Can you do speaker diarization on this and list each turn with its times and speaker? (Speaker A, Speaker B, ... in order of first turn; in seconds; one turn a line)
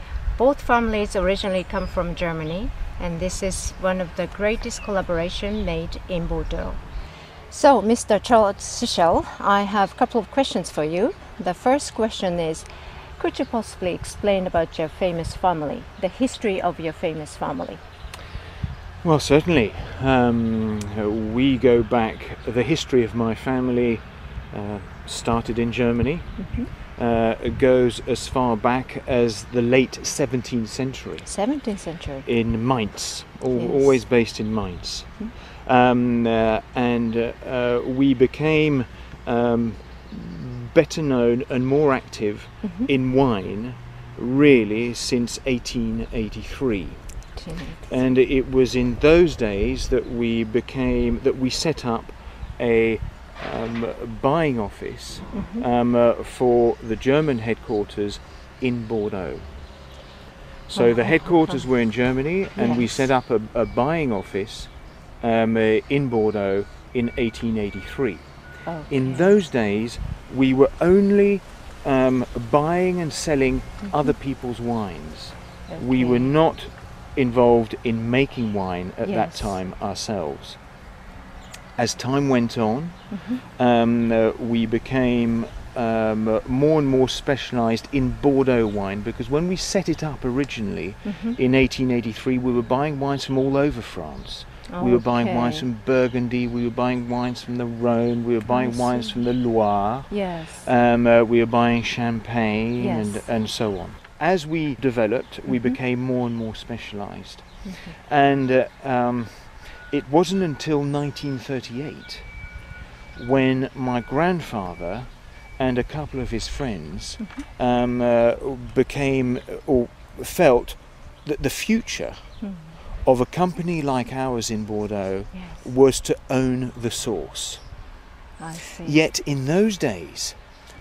Speaker A: 0.3-6.8
Speaker A: 7.5-12.7
Speaker A: 13.2-17.8
Speaker B: 19.0-31.3
Speaker A: 26.4-26.7
Speaker A: 31.2-32.3
Speaker B: 32.2-47.1
Speaker A: 33.5-34.0
Speaker A: 42.6-42.9
Speaker A: 47.3-48.0
Speaker B: 47.9-59.5
Speaker A: 55.3-55.6
Speaker B: 60.7-68.2
Speaker A: 60.7-61.6
Speaker A: 62.5-62.9
Speaker A: 68.7-69.3
Speaker B: 68.9-80.6
Speaker A: 73.8-74.1
Speaker A: 75.7-76.3
Speaker A: 79.0-79.5
Speaker B: 81.8-112.3
Speaker A: 83.1-83.4
Speaker A: 91.0-91.4
Speaker A: 94.7-95.7
Speaker A: 98.5-99.2
Speaker A: 100.1-100.7
Speaker A: 102.8-103.3
Speaker A: 105.5-105.8
Speaker A: 107.6-108.0
Speaker B: 113.1-122.4
Speaker A: 117.2-117.5
Speaker A: 122.4-122.8
Speaker B: 123.0-127.7
Speaker A: 125.3-125.6
Speaker A: 128.4-129.0
Speaker B: 128.8-130.4